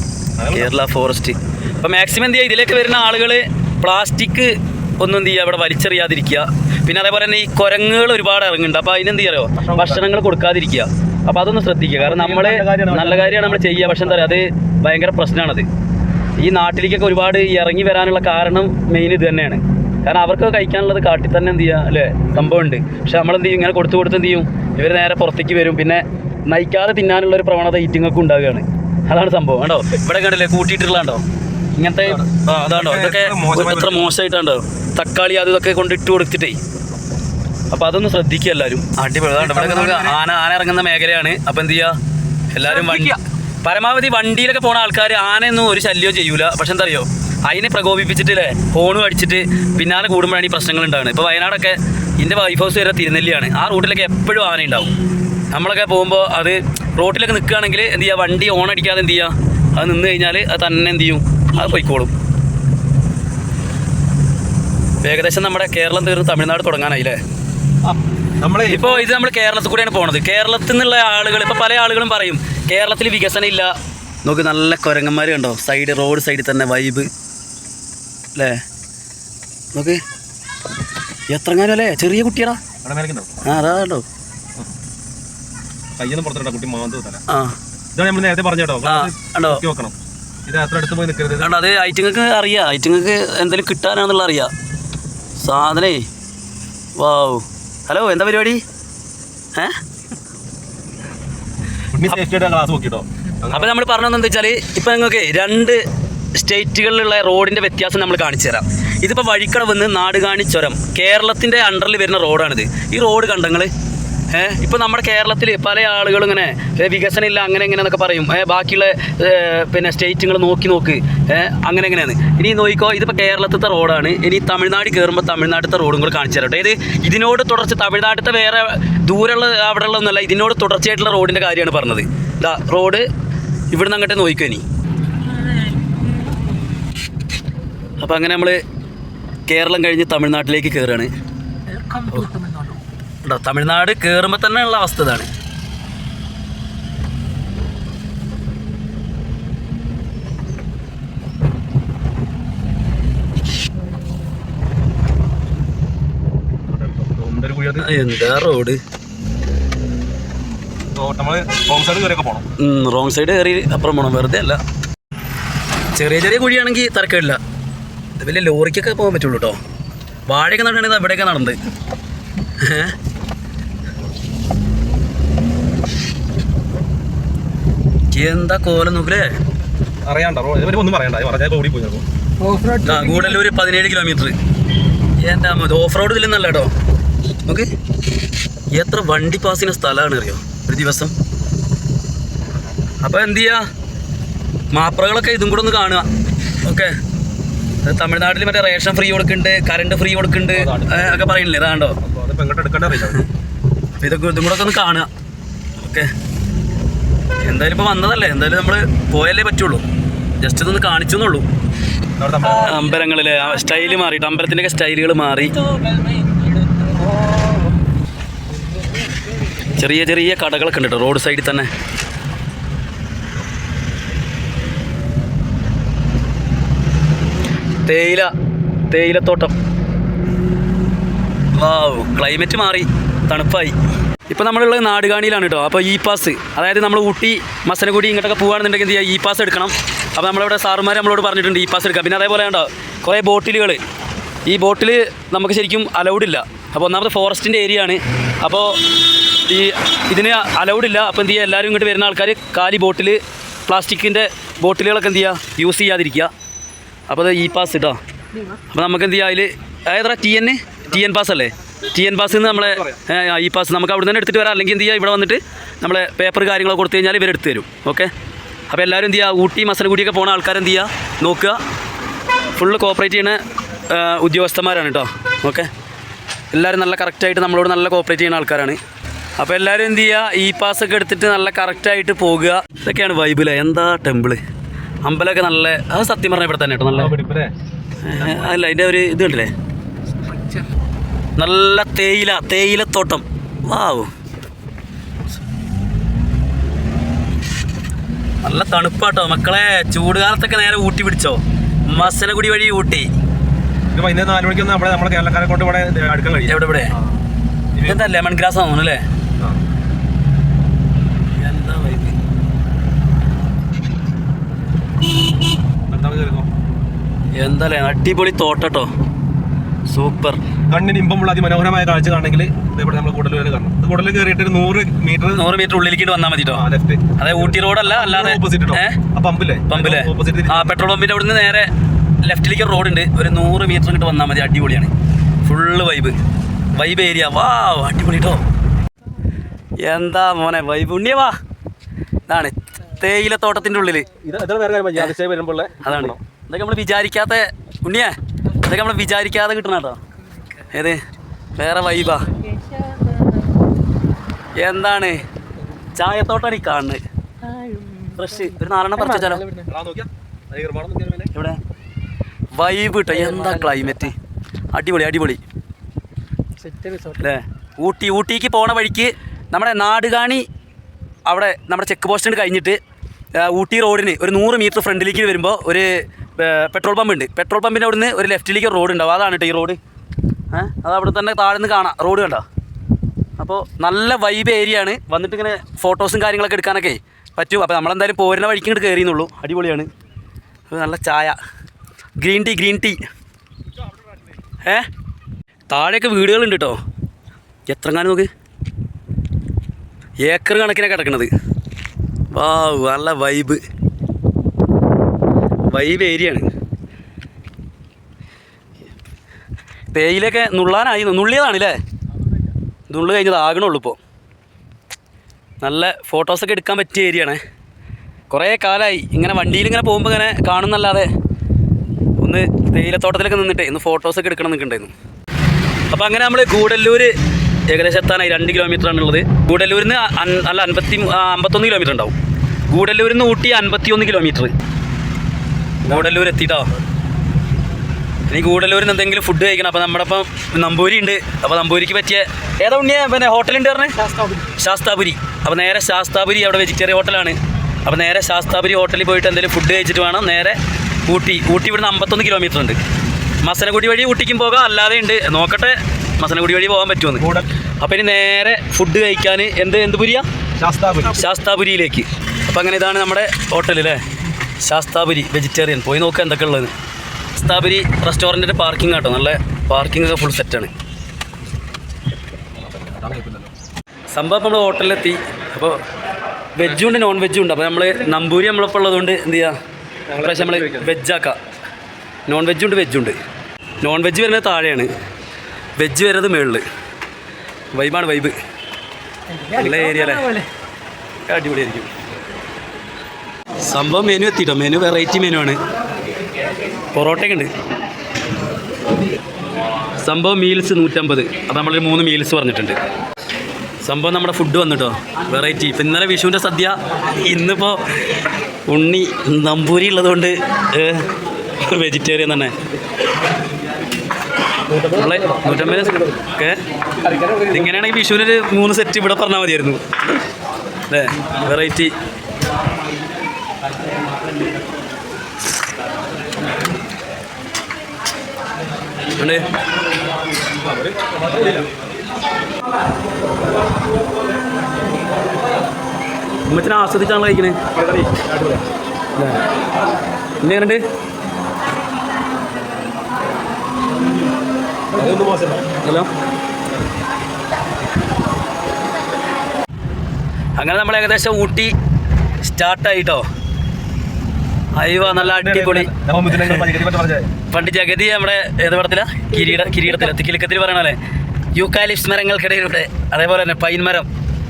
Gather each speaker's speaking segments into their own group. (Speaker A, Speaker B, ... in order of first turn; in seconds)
Speaker A: 0.4-0.8, 9.6-10.1, 12.0-14.4, 32.1-34.1, 39.4-40.2, 67.8-69.1, 82.8-83.3, 86.0-87.2, 87.9-89.9, 90.5-91.5, 101.9-103.8, 156.7-157.9, 160.9-162.4, 180.1-182.1, 200.6-201.4, 202.0-203.2, 212.2-213.0, 262.3-263.0, 286.9-287.5, 288.2-288.5, 303.9-307.2, 307.8-308.1, 315.9-316.5, 320.7-325.4, 326.5-330.8, 344.1-346.2, 359.7-361.3, 457.2-457.5, 460.6-461.2, 472.6-473.5, 480.1-480.9, 514.7-516.2, 517.0-517.7, 530.5-531.7, 537.7-538.6, 544.9-545.7, 555.0-557.3
Speaker B: 0.5-15.7, 16.4-31.2, 31.8-36.6, 37.7-42.0, 42.5-54.9, 55.5-62.1, 65.0-67.2, 68.7-73.7, 74.2-77.1, 78.4-78.6, 79.8-80.0, 81.3-82.6, 83.4-84.0, 87.3-87.5, 88.8-89.6, 91.4-94.5, 95.4-96.0, 97.0-98.6, 103.5-105.8, 106.4-113.7, 114.3-133.1, 133.7-134.6, 138.0-138.6, 139.5-141.1, 142.1-142.3, 143.2-145.3, 157.8-158.8, 162.6-164.6, 165.9-167.4, 168.2-169.6, 170.3-171.6, 172.6-172.9, 178.1-179.4, 182.8-184.3, 185.2-186.7, 188.7-191.1, 193.0-193.7, 194.7-196.1, 196.6-196.9, 197.8-202.0, 204.0-205.1, 205.8-206.1, 207.4-209.8, 210.4-211.4, 212.4-215.6, 219.7-221.7, 227.8-228.3, 228.9-229.6, 231.6-233.8, 234.3-243.8, 244.5-248.8, 249.5-256.3, 257.1-258.0, 258.7-268.1, 268.7-271.6, 272.6-273.4, 273.9-275.7, 276.5-278.8, 279.4-284.4, 285.0-287.1, 288.1-289.5, 291.4-294.1, 298.4-303.1, 306.5-306.9, 307.9-309.0, 311.4-312.2, 317.4-318.9, 319.9-320.4, 325.4-326.6, 327.2-329.0, 329.7-331.7, 332.2-334.9, 335.4-336.2, 336.8-338.4, 339.8-341.4, 342.3-344.1, 345.8-350.0, 350.7-351.0, 351.6-352.3, 354.6-355.2, 355.9-357.0, 358.2-359.4, 361.3-361.6, 362.6-364.1, 364.7-365.4, 367.2-370.5, 371.3-372.8, 373.4-379.8, 380.5-382.4, 383.4-389.9, 390.7-391.4, 392.2-393.0, 395.7-396.8, 397.7-398.3, 400.2-401.3, 402.3-403.6, 405.7-406.5, 409.9-411.8, 412.9-414.0, 415.6-417.4, 418.3-421.1, 422.2-424.9, 425.9-427.1, 427.7-432.2, 432.7-434.5, 435.8-436.7, 438.3-444.0, 444.6-452.8, 453.4-457.3, 457.8-460.3, 461.1-464.0, 464.6-466.7, 467.4-470.7, 474.1-475.8, 476.6-479.6, 480.2-481.4, 482.3-483.2, 483.8-484.9, 485.8-486.6, 487.7-488.4, 489.5-490.4, 491.3-491.9, 493.6-495.6, 496.9-497.5, 500.0-502.8, 503.8-511.1, 511.6-512.5, 514.9-516.6, 517.5-520.2, 520.9-521.9, 529.2-529.5, 536.5-537.6, 540.4-540.8, 545.8-546.1, 550.6-551.7, 552.4-553.2, 554.8-556.6, 557.5-561.0, 561.5-564.1
Speaker C: 42.8-43.1, 135.4-136.3, 141.7-142.8, 182.4-183.4, 215.5-217.8, 218.7-219.6, 290.4-290.6, 352.2-353.5, 357.4-359.7, 363.1-364.1, 366.6-367.2, 444.0-444.6, 489.3-490.5, 559.4-560.0